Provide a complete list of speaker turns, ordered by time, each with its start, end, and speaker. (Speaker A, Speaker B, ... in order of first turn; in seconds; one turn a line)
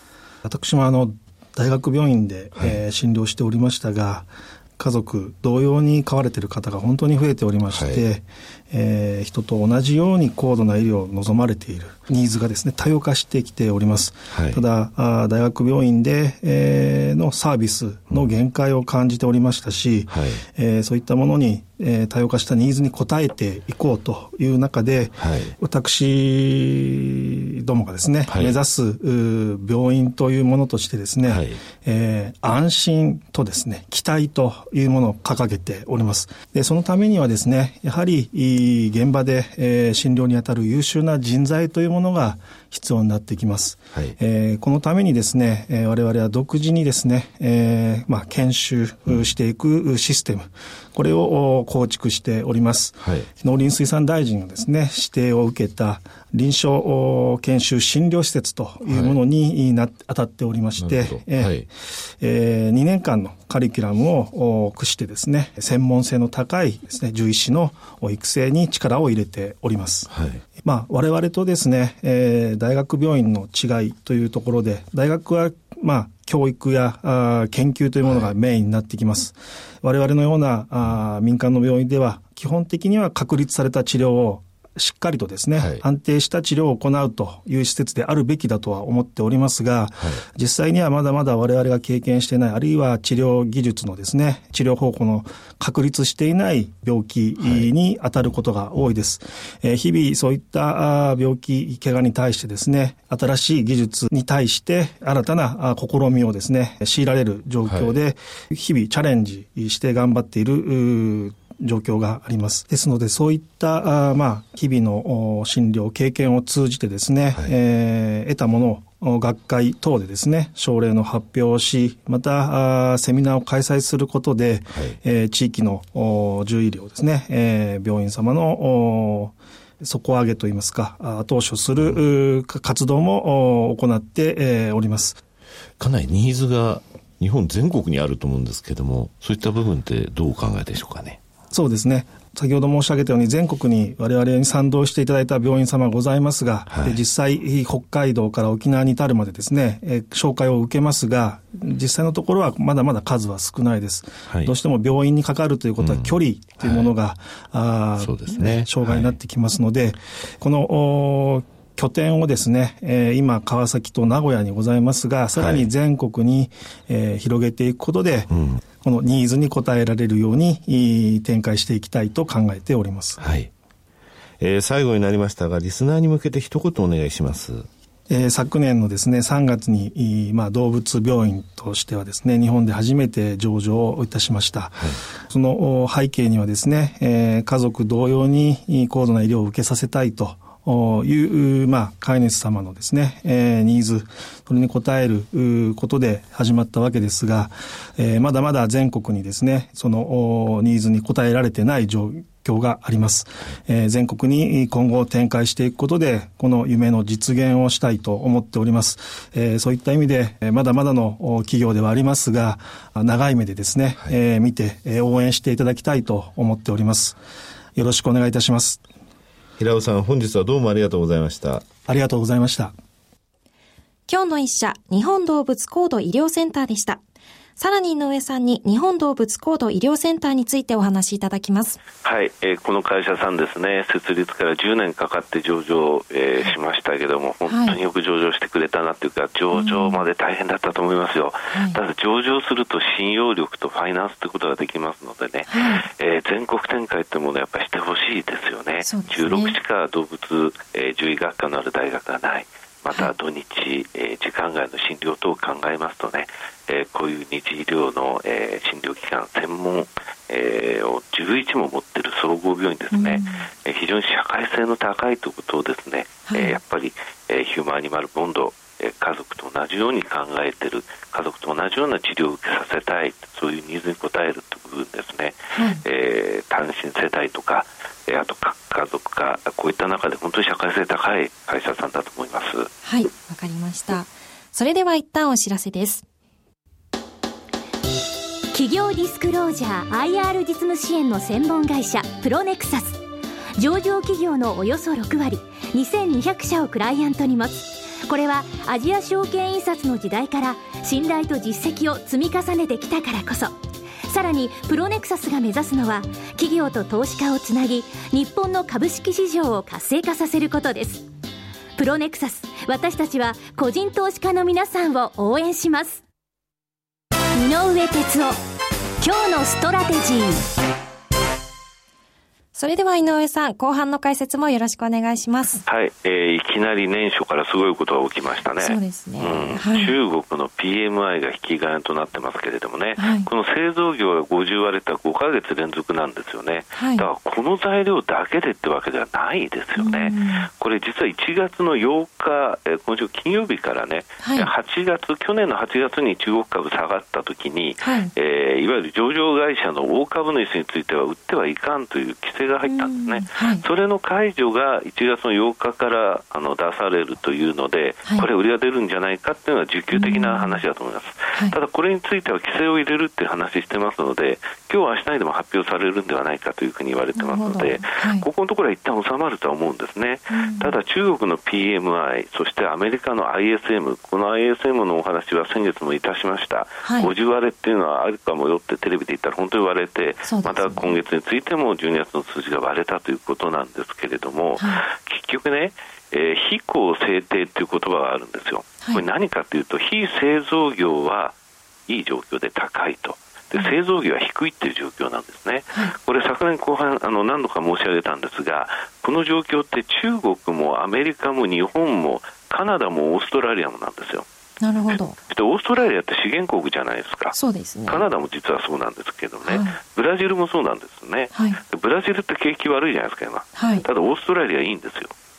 Speaker A: 0.4-70.1
Speaker B: 2.6-2.8
Speaker B: 7.7-8.1
Speaker B: 14.3-14.6
Speaker B: 20.1-20.4
Speaker B: 25.2-25.6
Speaker B: 28.3-28.6
Speaker B: 31.2-31.6
Speaker B: 53.0-53.3
Speaker B: 58.9-59.2
Speaker B: 60.8-61.7
Speaker B: 70.1-70.4
Speaker A: 70.6-135.2
Speaker B: 78.0-78.3
Speaker B: 85.6-85.8
Speaker B: 97.4-97.7
Speaker B: 107.7-108.0
Speaker B: 135.8-141.2
Speaker A: 141.5-168.3
Speaker B: 146.7-147.0
Speaker B: 155.8-156.9
Speaker B: 158.0-159.2
Speaker B: 165.3-165.7
Speaker B: 168.3-168.6
Speaker A: 168.8-173.2
Speaker B: 173.2-173.5
Speaker B: 174.4-177.7
Speaker A: 178.1-217.2
Speaker B: 184.7-185.0
Speaker A: 217.8-218.8
Speaker B: 219.6-221.7
Speaker A: 221.8-222.7
Speaker C: 224.1-227.0
Speaker C: 227.6-231.8
Speaker D: 232.0-282.7
Speaker C: 237.5-237.8
Speaker C: 239.5-240.0
Speaker C: 241.5-241.8
Speaker C: 245.5-245.9
Speaker C: 248.8-249.6
Speaker C: 262.9-263.4
Speaker C: 266.3-266.6
Speaker C: 275.6-275.8
Speaker C: 282.8-286.0
Speaker E: 288.5-293.0
Speaker E: 293.6-311.1
Speaker E: 311.8-316.0
Speaker E: 317.4-318.4
Speaker E: 319.0-320.5
Speaker C: 322.6-325.6
Speaker D: 325.7-391.4
Speaker C: 328.6-329.9
Speaker C: 333.0-333.3
Speaker C: 336.8-337.1
Speaker C: 339.8-340.5
Speaker C: 344.2-344.5
Speaker C: 347.8-348.1
Speaker C: 352.6-353.6
Speaker C: 359.9-360.6
Speaker C: 367.1-368.3
Speaker C: 370.3-370.8
Speaker C: 376.9-377.1
Speaker C: 380.3-380.9
Speaker D: 391.9-404.3
Speaker C: 404.6-405.2
Speaker D: 405.3-407.4
Speaker C: 407.3-408.1
Speaker D: 407.9-415.1
Speaker C: 409.4-409.8
Speaker C: 411.3-411.6
Speaker C: 413.6-413.9